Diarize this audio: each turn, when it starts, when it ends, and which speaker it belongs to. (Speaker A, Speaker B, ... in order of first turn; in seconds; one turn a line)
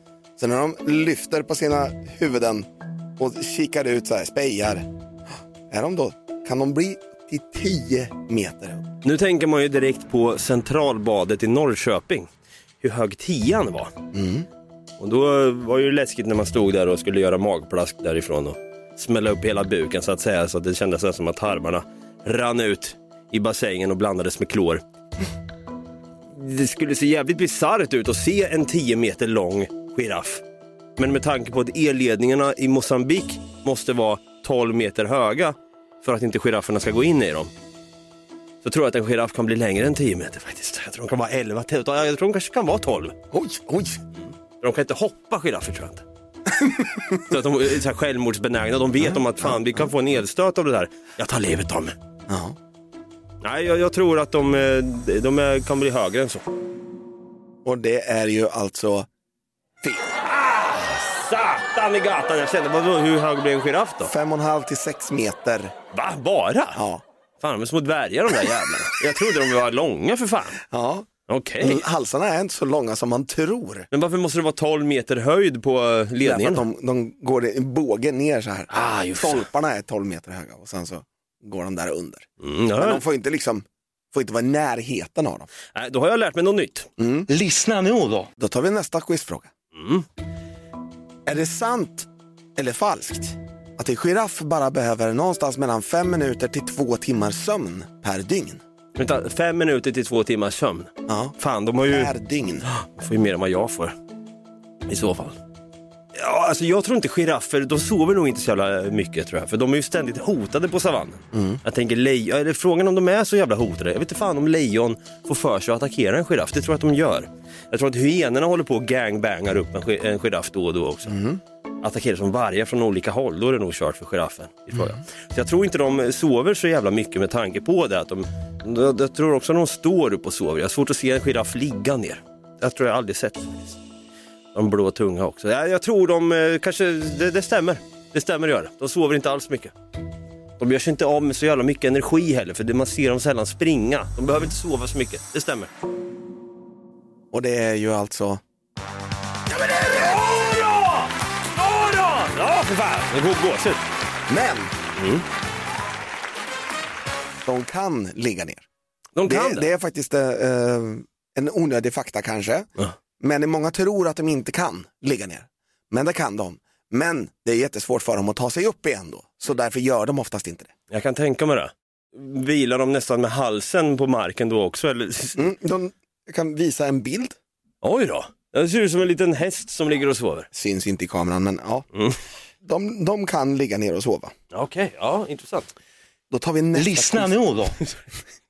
Speaker A: 0.4-4.9
Speaker A: 5.7-8.9
Speaker B: 9.0-12.3
Speaker B: 12.8-13.9
Speaker A: 14.1-14.5
Speaker B: 15.0-24.8
Speaker B: 26.3-30.4
Speaker B: 31.0-37.5
Speaker B: 38.6-43.1
Speaker A: 43.3-44.0
Speaker B: 44.6-46.0
Speaker A: 46.5-47.2
Speaker B: 47.2-51.9
Speaker A: 49.0-49.5
Speaker A: 52.3-52.6
Speaker B: 53.4-56.4
Speaker A: 57.6-59.1
Speaker A: 59.8-60.1
Speaker B: 60.2-64.1
Speaker A: 64.0-65.7
Speaker B: 65.9-66.8
Speaker A: 66.7-67.0
Speaker B: 67.4-70.6
Speaker A: 70.7-71.1
Speaker B: 71.3-71.8
Speaker A: 71.6-73.9
Speaker B: 73.9-76.6
Speaker A: 76.2-85.5
Speaker B: 78.7-79.5
Speaker B: 82.4-83.0
Speaker B: 85.7-86.9
Speaker A: 87.0-87.3
Speaker C: 87.3-88.3
Speaker A: 88.4-89.5
Speaker B: 89.7-90.0
Speaker A: 91.2-98.6
Speaker B: 99.0-102.1
Speaker A: 101.0-102.7
Speaker B: 102.7-103.9
Speaker B: 104.9-105.4
Speaker B: 106.1-121.1
Speaker A: 111.3-111.6
Speaker A: 121.1-121.4
Speaker B: 121.8-133.8
Speaker B: 134.5-139.7
Speaker B: 140.6-145.7
Speaker A: 147.3-148.4
Speaker B: 149.5-153.8
Speaker A: 154.3-154.7
Speaker B: 154.9-155.2
Speaker A: 157.4-158.7
Speaker B: 159.2-159.7
Speaker A: 159.2-170.7
Speaker B: 170.9-175.5
Speaker A: 175.3-177.4
Speaker B: 177.8-180.5
Speaker A: 180.5-181.9
Speaker A: 182.6-184.3
Speaker B: 184.5-185.7
Speaker A: 186.3-187.3
Speaker C: 186.7-187.8